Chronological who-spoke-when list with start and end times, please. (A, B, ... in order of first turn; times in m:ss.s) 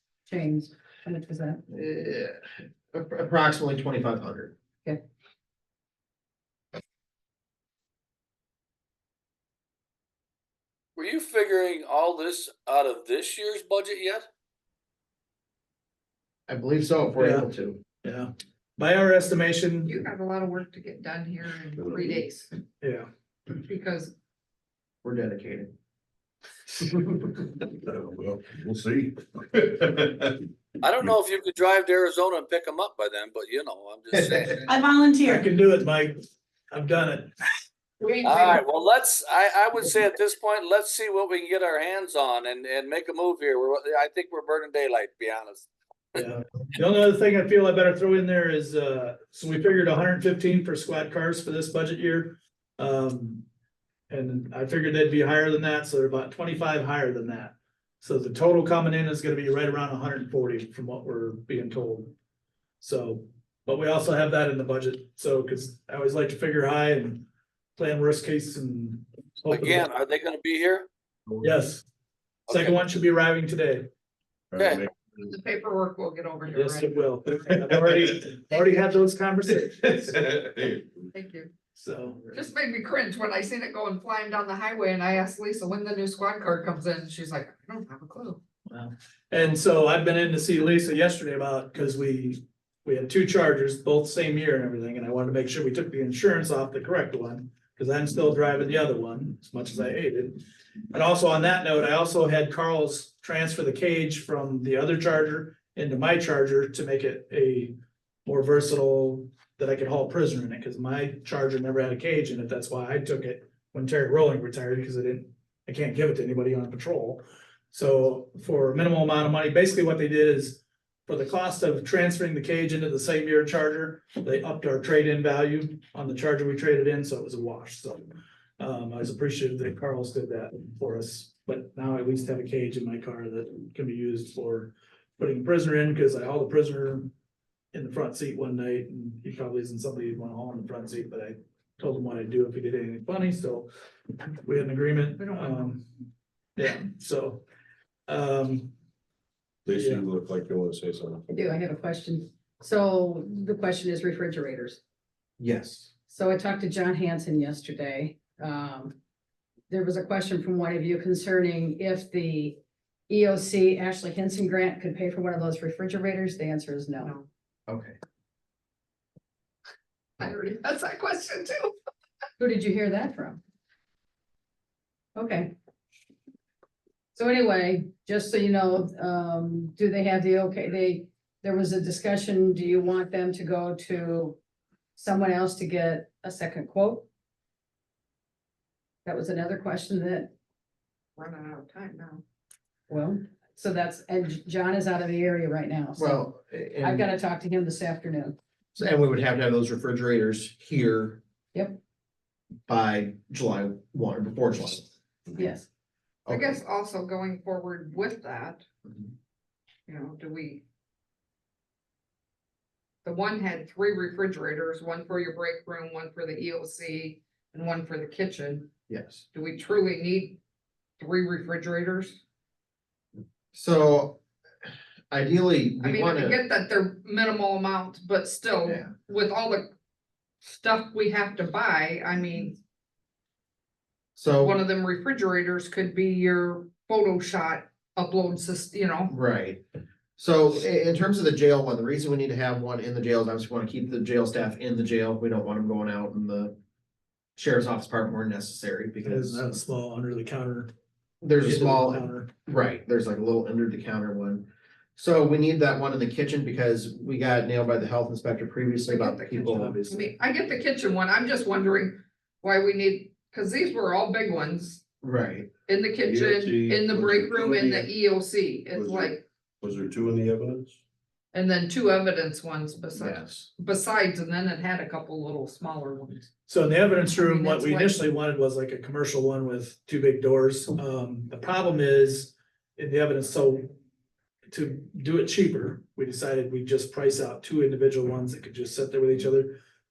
0:00.2-0:01.6 A
0:01.7-0:02.4 B
0:02.9-0:04.5 B
0:11.0-0:14.3 C
0:16.5-0:17.8 B
0:17.2-0:17.5 D
0:18.0-0:20.0 D
0:19.8-0:22.5 E
0:22.8-0:23.1 D
0:23.6-0:24.1 E
0:25.0-0:25.7 B
0:27.7-0:30.3 F
0:30.8-0:34.7 C
0:34.7-0:35.4 A
0:35.2-0:36.1 D
0:36.7-0:37.3 D
0:38.0-0:38.6 E
0:38.2-0:46.2 C
0:46.1-0:53.4 D
0:54.1-1:02.1 D
1:02.8-1:09.9 D
1:09.5-1:10.9 C
1:11.4-1:11.8 D
1:12.5-1:12.8 C
1:12.5-1:13.9 D
1:14.5-1:14.9 F
1:14.6-1:14.8 C
1:15.2-1:17.0 E
1:16.5-1:20.5 D
1:21.1-1:21.5 E
1:21.7-1:22.3 D
1:22.3-1:28.4 E
1:28.7-1:40.4 D
1:40.9-1:47.7 D
1:48.2-1:57.2 D
1:57.7-2:08.0 D
2:08.6-2:17.1 D
2:17.7-2:23.7 D
2:24.4-2:25.8 D
2:25.2-2:25.7 E
2:26.6-2:27.4 D
2:28.1-2:28.7 D
2:29.6-2:31.3 F
2:29.7-2:30.1 D
2:31.3-2:34.8 A
2:35.4-2:35.9 B
2:36.1-2:39.0 A
2:39.7-2:42.6 A
2:43.1-2:47.1 A
2:47.0-2:47.3 E
2:47.7-2:48.0 B
2:50.2-2:51.7 E
2:52.4-2:53.4 A
2:55.2-2:55.5 A
2:57.1-3:04.4 A
3:05.0-3:07.0 A
3:09.0-3:10.3 A
3:11.2-3:12.2 E
3:12.9-3:18.4 A
3:16.0-3:17.1 B
3:18.7-3:21.2 B
3:21.5-3:21.8 A
3:22.7-3:24.9 B
3:25.3-3:25.7 A
3:26.2-3:26.6 B
3:26.3-3:28.6 E
3:29.9-3:30.6 E
3:33.0-3:38.7 E
3:38.9-3:39.2 B
3:39.3-3:40.4 E
3:41.0-3:42.2 E
3:43.5-3:44.2 B
3:45.1-3:46.4 B
3:45.8-3:49.7 E
3:48.6-3:48.9 B
3:50.5-3:52.6 E
3:54.2-3:54.6 B
3:54.4-3:59.1 E
3:59.1-3:59.6 B
4:00.2-4:06.6 B
4:07.4-4:09.4 B
4:09.0-4:10.7 D
4:11.2-4:19.8 B
4:11.4-4:12.3 D
4:18.9-4:24.8 E
4:19.5-4:20.1 D
4:25.0-4:25.5 B
4:25.7-4:29.2 E
4:26.0-4:27.9 F
4:28.7-4:30.8 F
4:31.3-4:36.3 E
4:32.9-4:33.5 B
4:36.5-4:43.7 D
4:37.0-4:38.0 E
4:44.5-4:49.6 D